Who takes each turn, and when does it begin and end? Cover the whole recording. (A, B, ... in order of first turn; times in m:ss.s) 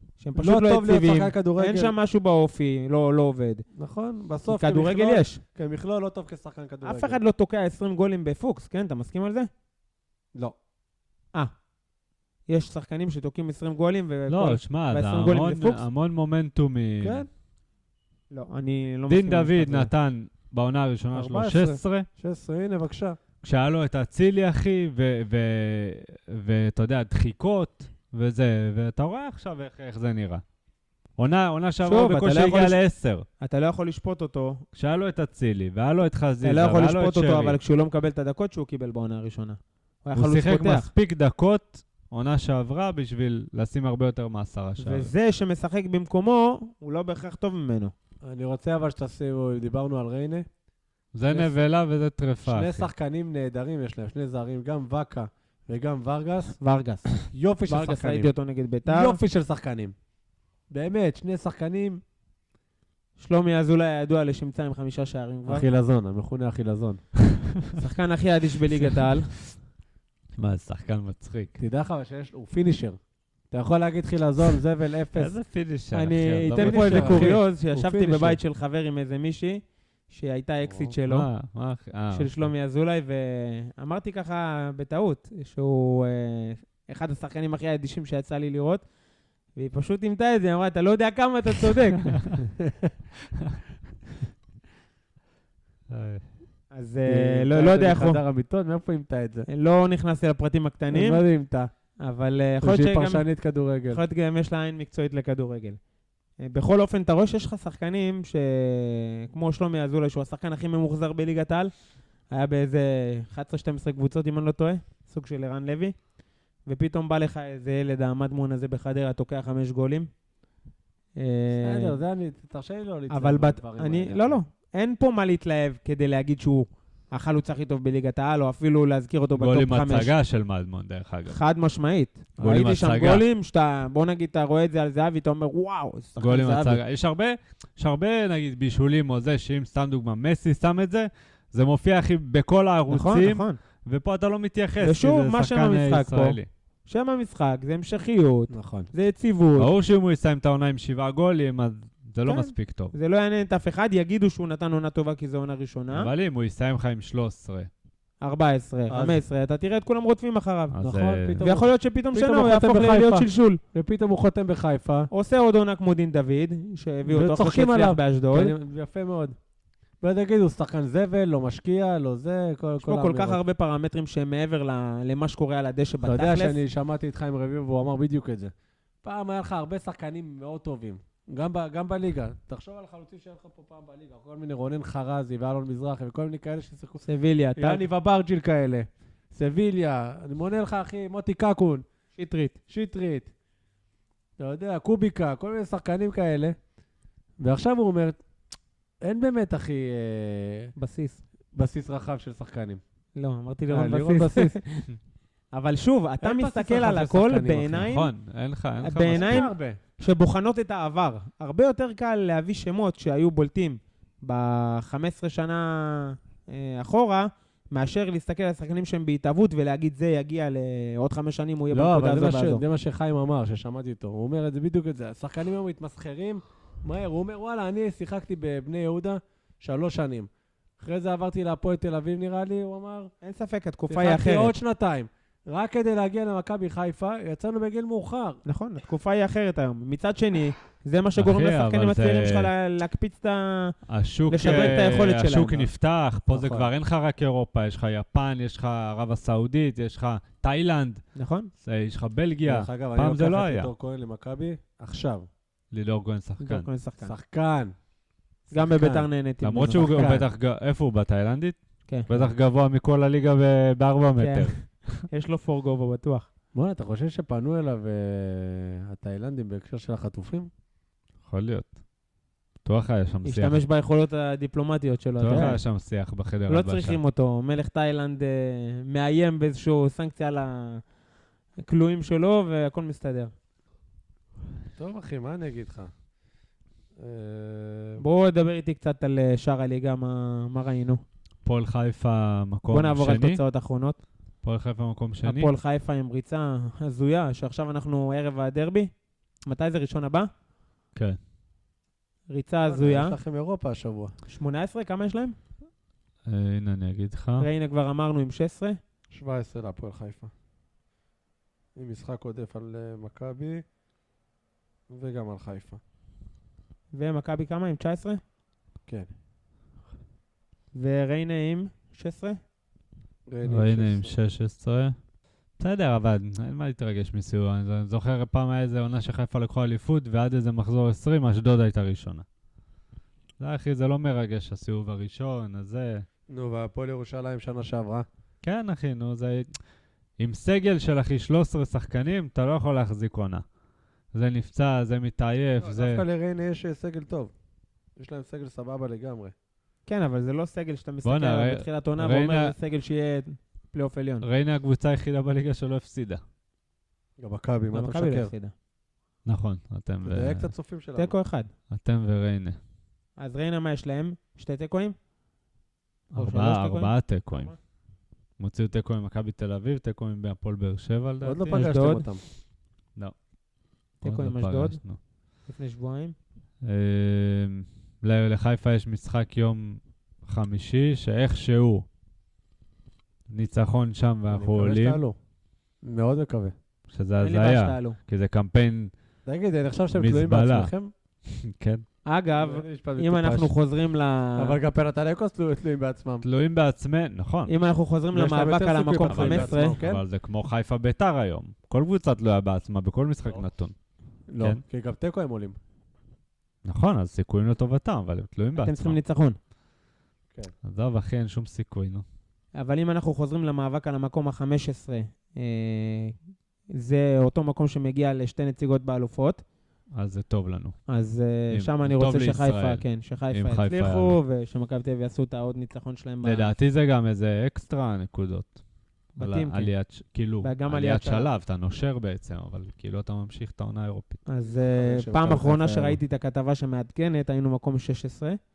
0:00.2-0:03.7 A
0:00.4-0:01.9 B
0:03.8-0:07.2 B
0:04.5-0:05.4 A
0:06.8-0:09.5 A
0:12.5-0:15.8 A
0:14.3-0:17.2 C
0:17.0-0:17.3 B
0:18.3-0:19.9 A
0:19.1-0:22.1 C
0:21.1-0:23.2 B
0:23.4-0:30.4 C
0:31.2-0:33.3 C
0:31.8-0:32.8 A
0:33.4-0:34.6 A
0:34.7-0:37.6 C
0:36.4-0:40.9 A
0:40.2-0:45.1 C
0:44.8-0:47.9 A
0:48.2-0:50.5 B
0:51.1-0:52.9 C
0:51.3-0:51.6 B
0:52.4-0:56.6 B
0:56.6-0:57.1 A
0:57.2-0:58.3 B
0:57.7-0:59.2 A
0:58.9-0:59.9 B
1:00.7-1:02.0 B
1:03.2-1:05.7 A
1:05.5-1:07.0 B
1:07.8-1:09.3 A
1:10.4-1:11.6 C
1:11.6-1:13.0 B
1:13.5-1:15.3 B
1:15.1-1:17.4 C
1:15.9-1:21.3 A
1:16.5-1:18.4 B
1:20.7-1:20.9 B
1:21.1-1:22.3 C
1:22.1-1:28.8 A
1:29.6-1:32.4 A
1:32.6-1:32.9 B
1:35.9-1:36.2 C
1:36.7-1:38.2 A
1:37.1-1:39.5 B
1:39.5-1:41.2 A
1:40.9-1:41.7 B
1:42.0-1:43.2 A
1:42.6-1:44.0 B
1:43.9-1:45.8 A
1:46.4-1:51.7 A
1:52.3-1:56.0 A
1:56.7-2:00.1 A
2:01.2-2:02.0 A
2:01.6-2:04.4 B
2:03.1-2:10.1 A
2:09.4-2:11.4 C
2:11.3-2:16.8 A
2:12.4-2:13.2 C
2:16.2-2:26.5 C
2:22.9-2:23.6 A
2:24.8-2:29.7 A
2:28.5-2:28.9 B
2:29.6-2:32.9 C
2:32.2-2:36.1 A
2:35.9-2:37.7 C
2:38.2-2:40.8 A
2:38.9-2:39.2 B
2:40.7-2:41.5 C
2:40.8-2:45.1 B
2:41.4-2:43.6 A
2:45.1-2:48.6 A
2:47.1-2:49.4 B
2:50.0-2:53.4 B
2:52.8-2:56.6 A
2:56.0-3:07.0 B
3:07.0-3:07.8 A
3:07.6-3:11.8 B
3:12.2-3:12.6 A
3:12.7-3:13.3 B
3:14.4-3:16.6 B
3:17.4-3:18.2 B
3:19.0-3:20.7 B
3:20.8-3:21.2 A
3:21.5-3:22.8 B
3:23.2-3:24.9 A
3:23.7-3:24.6 B
3:25.5-3:28.1 A
3:26.2-3:27.7 B
3:27.6-3:29.4 C
3:28.8-3:42.6 A
3:29.1-3:29.8 B
3:41.7-3:53.1 B
3:53.2-3:54.5 A
3:53.9-3:58.4 B
3:58.5-4:03.8 A
4:01.2-4:02.5 C
4:03.9-4:11.0 C
4:04.3-4:05.7 A
4:04.4-4:04.8 B
4:06.3-4:06.7 B
4:11.2-4:11.5 A
4:11.6-4:13.7 C
4:12.4-4:15.3 B
4:15.7-4:16.7 C
4:16.4-4:17.2 A
4:17.0-4:17.7 B
4:18.5-4:19.1 B
4:18.5-4:20.2 A
4:19.4-4:25.1 C
4:19.9-4:20.2 B
4:21.9-4:22.2 A
4:24.2-4:26.3 A
4:26.5-4:30.5 B
4:31.3-4:31.8 C
4:32.6-4:33.6 C
4:33.2-4:35.6 A
4:35.2-4:37.0 C
4:35.3-4:35.6 B
4:36.5-4:40.8 A
4:41.6-4:43.3 A
4:44.8-4:45.9 B
4:47.0-4:48.0 B
4:48.0-4:51.0 A
4:51.4-4:53.4 C
4:52.7-4:54.0 A
4:54.4-4:55.5 C
4:55.2-4:58.9 A
4:59.5-5:00.3 A
5:02.3-5:03.2 A
5:02.6-5:04.1 B
5:04.3-5:05.4 A
5:06.3-5:07.5 C
5:07.4-5:08.8 A
5:09.1-5:10.3 B
5:11.8-5:13.6 B
5:14.9-5:15.8 B
5:16.9-5:18.2 A
5:20.7-5:22.4 A
5:23.3-5:24.1 B
5:23.4-5:25.0 C
5:25.6-5:32.2 C
5:33.4-5:36.1 C
5:36.3-5:38.1 B
5:38.4-5:39.5 C
5:40.2-5:43.4 C
5:44.1-5:46.0 C
5:45.6-5:47.3 B
5:48.0-5:49.3 B
5:49.9-5:54.3 A
5:51.0-5:52.6 C
5:54.2-5:56.2 C
5:57.2-5:58.3 B
5:57.7-5:58.5 A
5:59.2-6:00.5 C
6:00.0-6:01.2 B
6:01.0-6:01.5 A
6:01.7-6:02.6 C
6:03.2-6:05.0 A
6:06.1-6:07.6 C
6:06.2-6:07.6 A
6:08.4-6:11.6 C
6:11.2-6:12.2 B
6:11.5-6:12.0 A
6:14.0-6:14.8 A
6:14.0-6:15.0 C
6:15.5-6:16.2 A
6:16.6-6:21.9 C
6:23.3-6:25.0 C
6:24.3-6:25.2 B
6:25.8-6:26.6 B
6:26.9-6:28.9 C
6:27.2-6:28.0 A
6:29.2-6:30.9 B
6:30.0-6:30.7 C
6:31.3-6:31.8 C
6:32.1-6:34.6 A
6:32.4-6:33.5 B
6:34.4-6:36.3 B
6:36.2-6:37.5 C
6:37.5-6:39.8 A
6:38.1-6:40.0 B
6:39.1-6:43.7 C
6:44.3-6:45.6 B
6:46.6-6:49.0 C
6:48.6-6:49.4 A
6:50.6-6:52.0 C
6:52.6-6:56.2 A
6:56.7-6:59.4 A
7:00.0-7:00.8 C
7:00.9-7:06.6 A
7:01.5-7:04.2 C
7:06.2-7:08.6 C
7:09.2-7:14.2 C
7:09.2-7:09.7 A
7:10.4-7:11.3 A
7:14.3-7:18.4 A
7:14.8-7:16.0 B